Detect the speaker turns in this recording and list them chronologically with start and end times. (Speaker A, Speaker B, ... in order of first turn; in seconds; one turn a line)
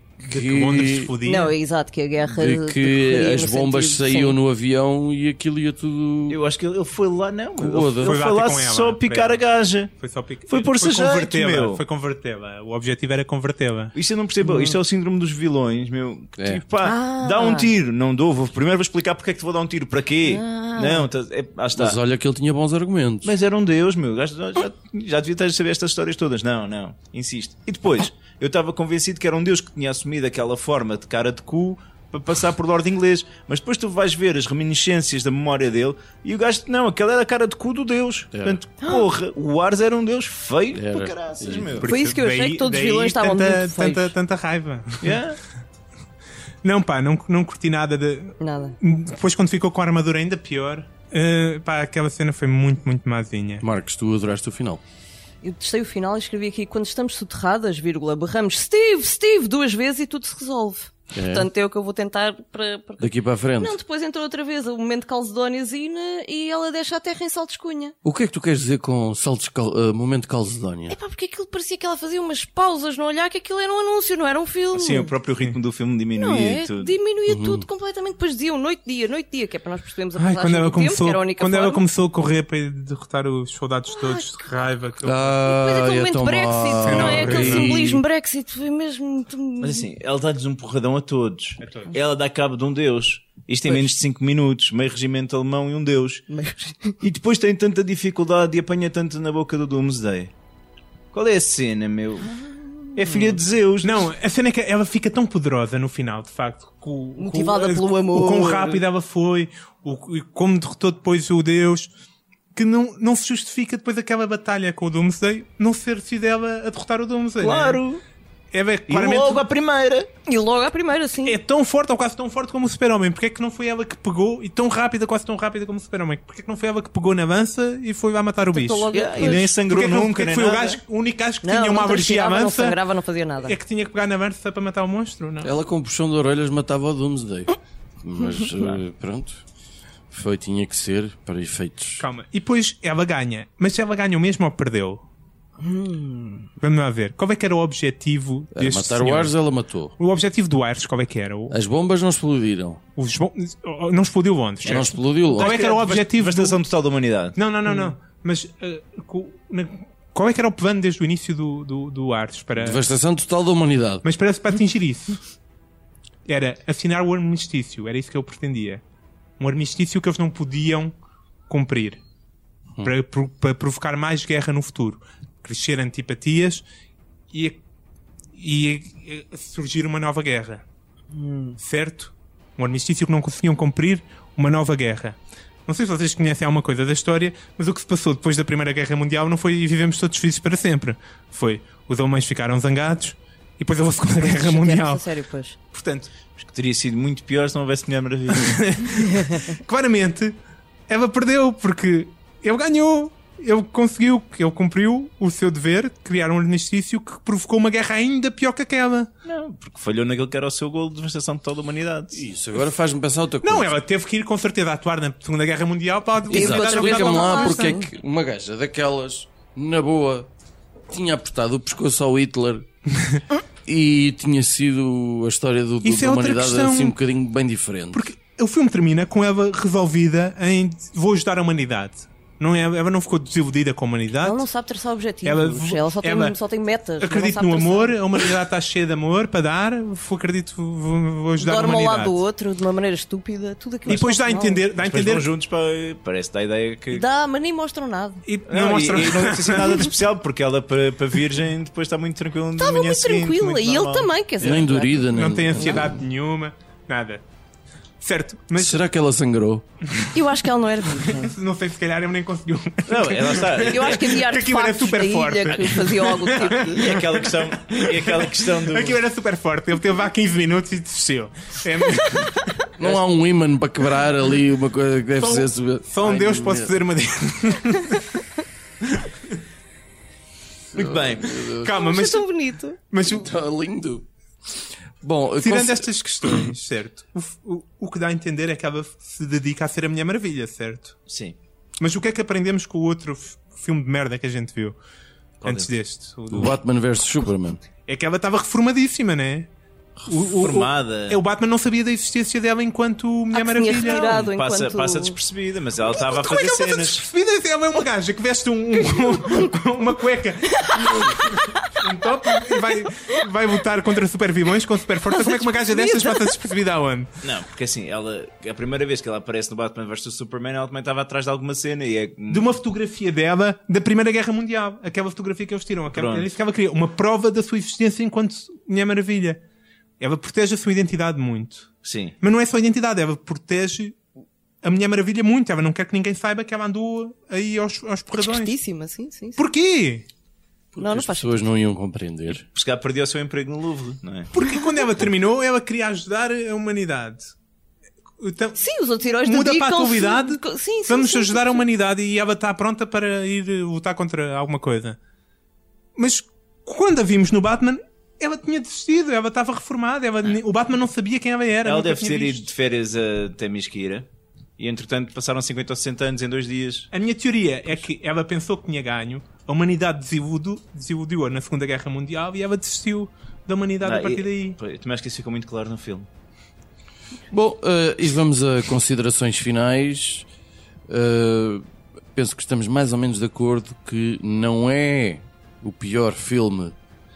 Speaker A: 0.3-1.1
Speaker B: 0.3-1.5
Speaker C: 1.2-4.4
Speaker A: 2.3-6.4
Speaker D: 6.3-9.9
Speaker A: 7.6-8.2
Speaker B: 8.0-9.4
Speaker B: 10.0-13.9
Speaker D: 10.5-11.8
Speaker D: 13.9-22.0
Speaker C: 14.5-14.8
Speaker C: 16.8-17.7
Speaker C: 20.2-21.1
Speaker A: 21.8-23.3
Speaker D: 23.2-41.9
Speaker C: 38.8-39.1
Speaker A: 40.7-41.9
Speaker B: 41.8-45.2
Speaker C: 41.9-44.1
Speaker D: 45.0-45.4
Speaker B: 46.6-53.6
Speaker C: 48.4-48.8
Speaker A: 53.6-54.8
Speaker C: 55.4-67.9
Speaker A: 61.1-61.5
Speaker A: 63.0-63.8
Speaker A: 68.0-71.0
Speaker C: 70.9-75.1
Speaker D: 74.7-76.9
Speaker C: 76.2-81.8
Speaker A: 77.3-77.7
Speaker B: 80.2-85.4
Speaker C: 83.9-84.3
Speaker A: 85.0-88.0
Speaker C: 85.4-89.9
Speaker B: 86.8-87.7
Speaker D: 89.6-96.2
Speaker B: 91.6-91.9
Speaker C: 96.3-97.0
Speaker D: 97.0-100.3
Speaker D: 101.1-102.3
Speaker D: 103.0-104.1
Speaker C: 103.0-103.4
Speaker B: 103.8-111.9
Speaker C: 107.2-108.8
Speaker B: 112.5-117.8
Speaker D: 117.4-118.0
Speaker B: 118.5-119.4
Speaker D: 118.9-120.1
Speaker C: 120.3-121.4
Speaker B: 121.2-132.8
Speaker C: 128.5-129.5
Speaker D: 128.9-130.8
Speaker C: 131.4-133.6
Speaker B: 133.4-135.5
Speaker A: 135.4-139.4
Speaker A: 140.1-142.1
Speaker B: 142.0-145.0
Speaker C: 145.6-146.5
Speaker B: 146.6-149.3
Speaker A: 148.5-149.9
Speaker B: 150.0-151.6
Speaker A: 151.5-152.8
Speaker B: 153.0-156.6
Speaker A: 154.6-155.6
Speaker D: 154.6-157.4
Speaker B: 157.4-162.8
Speaker A: 162.6-164.0
Speaker B: 164.0-165.2
Speaker B: 166.3-168.8
Speaker B: 169.4-170.9
Speaker B: 171.5-172.0
Speaker B: 172.8-176.7
Speaker B: 177.3-177.6
Speaker B: 178.4-180.6
Speaker C: 181.1-181.6
Speaker B: 181.6-195.0
Speaker C: 194.2-195.6
Speaker B: 195.7-196.1
Speaker D: 196.4-198.7
Speaker B: 198.4-209.1
Speaker D: 209.2-212.2
Speaker A: 212.1-213.8
Speaker B: 213.4-217.7
Speaker A: 216.3-220.3
Speaker C: 216.3-217.8
Speaker A: 220.9-222.7
Speaker A: 223.7-228.0
Speaker B: 225.8-226.9
Speaker B: 227.9-234.4
Speaker C: 234.2-238.3
Speaker B: 235.2-236.4
Speaker B: 237.0-242.2
Speaker C: 241.4-244.6
Speaker B: 243.9-245.2
Speaker D: 244.8-247.1
Speaker C: 246.9-248.2
Speaker B: 248.3-249.9
Speaker D: 248.5-254.6
Speaker C: 252.6-255.9
Speaker A: 254.4-256.0
Speaker B: 255.1-257.2
Speaker B: 258.0-258.8
Speaker A: 258.6-259.6
Speaker C: 260.1-261.3
Speaker B: 261.1-272.6
Speaker D: 262.9-264.2
Speaker C: 263.7-266.9
Speaker D: 265.5-269.0
Speaker A: 272.8-276.8
Speaker B: 275.2-278.2
Speaker B: 279.0-279.4
Speaker D: 280.7-281.4
Speaker A: 280.7-281.9
Speaker B: 281.6-282.3
Speaker C: 281.7-282.8
Speaker B: 282.9-283.3
Speaker A: 283.0-286.5
Speaker B: 285.4-291.0
Speaker D: 291.1-291.4
Speaker B: 291.8-294.8
Speaker D: 295.4-295.7
Speaker B: 295.4-296.6
Speaker A: 296.3-297.6
Speaker B: 297.9-299.5
Speaker D: 300.1-301.2
Speaker B: 300.1-304.3
Speaker C: 303.3-305.2
Speaker D: 304.0-307.1
Speaker C: 306.0-306.8
Speaker B: 306.8-317.1
Speaker C: 310.6-311.7
Speaker C: 315.1-316.4
Speaker D: 317.2-322.5
Speaker B: 322.3-329.4
Speaker D: 325.9-326.3
Speaker B: 330.0-331.7
Speaker D: 331.8-332.2
Speaker B: 332.2-334.0
Speaker B: 334.6-338.5
Speaker C: 338.2-339.4
Speaker B: 339.4-340.1
Speaker A: 340.7-342.4
Speaker C: 340.8-341.4
Speaker D: 342.5-344.3
Speaker B: 344.3-347.3
Speaker B: 348.2-348.6
Speaker C: 348.6-351.6
Speaker B: 349.2-355.0
Speaker B: 356.0-362.5
Speaker D: 361.6-364.1
Speaker D: 364.6-366.9
Speaker B: 366.9-374.6
Speaker D: 373.8-376.1
Speaker A: 377.3-380.3
Speaker A: 380.9-381.6
Speaker A: 382.1-386.8